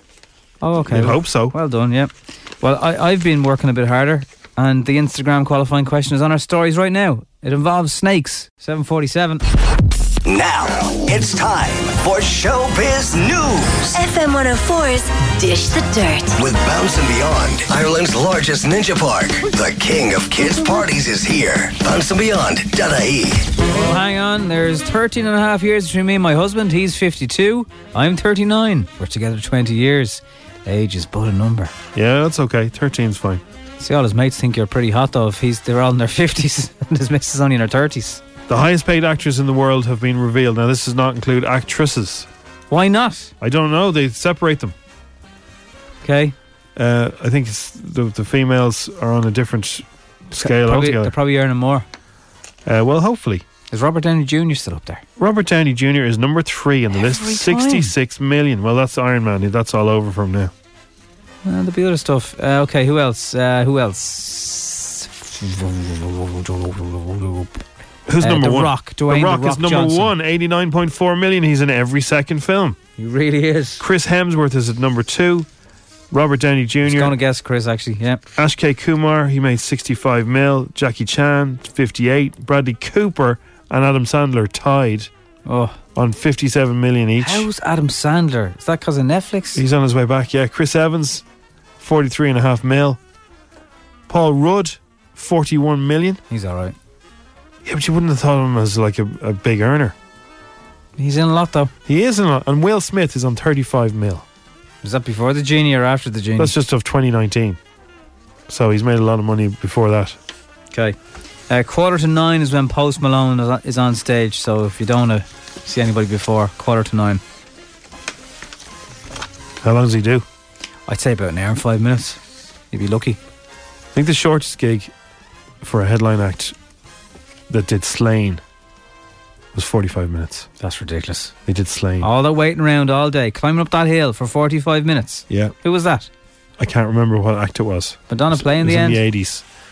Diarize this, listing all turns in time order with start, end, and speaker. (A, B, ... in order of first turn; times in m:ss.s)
0:00.6-0:09.4 A
0:00.9-0:01.6 B
0:10.2-0:13.9 C
0:13.9-0:16.4 D
0:16.4-0:23.5 C
0:23.7-0:31.8 A
0:31.9-0:33.4 B
0:33.8-0:38.2 A
0:38.5-0:42.3 B
0:42.7-0:43.3 A
0:43.4-0:44.7 B
0:46.0-0:46.4 A
0:46.8-0:51.1 B
0:50.4-0:51.9 A
0:52.6-0:53.4 B
0:53.7-0:55.0 A
0:55.2-1:00.5 B
0:56.9-0:57.9 A
1:01.4-1:07.6 A
1:08.1-1:12.8 B
1:08.2-1:10.1 A
1:13.0-1:13.8 A
1:13.8-1:15.5 B
1:16.1-1:17.1 B
1:16.8-1:18.2 A
1:18.4-1:25.1 B
1:25.4-1:25.8 A
1:25.9-1:27.5 B
1:27.2-1:29.6 A
1:29.6-1:31.2 B
1:31.8-1:33.0 B
1:34.1-1:36.2 B
1:36.3-1:36.8 A
1:37.6-1:39.9 B
1:41.0-1:41.7 A
1:41.9-1:44.2 B
1:44.8-1:46.5 A
1:46.4-1:47.6 B
1:48.5-1:50.2 B
1:51.5-1:57.2 A
1:59.6-2:00.2 B
2:00.9-2:02.2 A
2:02.7-2:03.2 A
2:03.9-2:04.9 B
2:05.6-2:06.6 B
2:07.5-2:08.4 B
2:09.5-2:10.5 B
2:10.6-2:11.4 A
2:11.5-2:12.1 B
2:12.0-2:16.1 A
2:15.3-2:15.5 B
2:16.6-2:19.4 B
2:18.1-2:19.0 A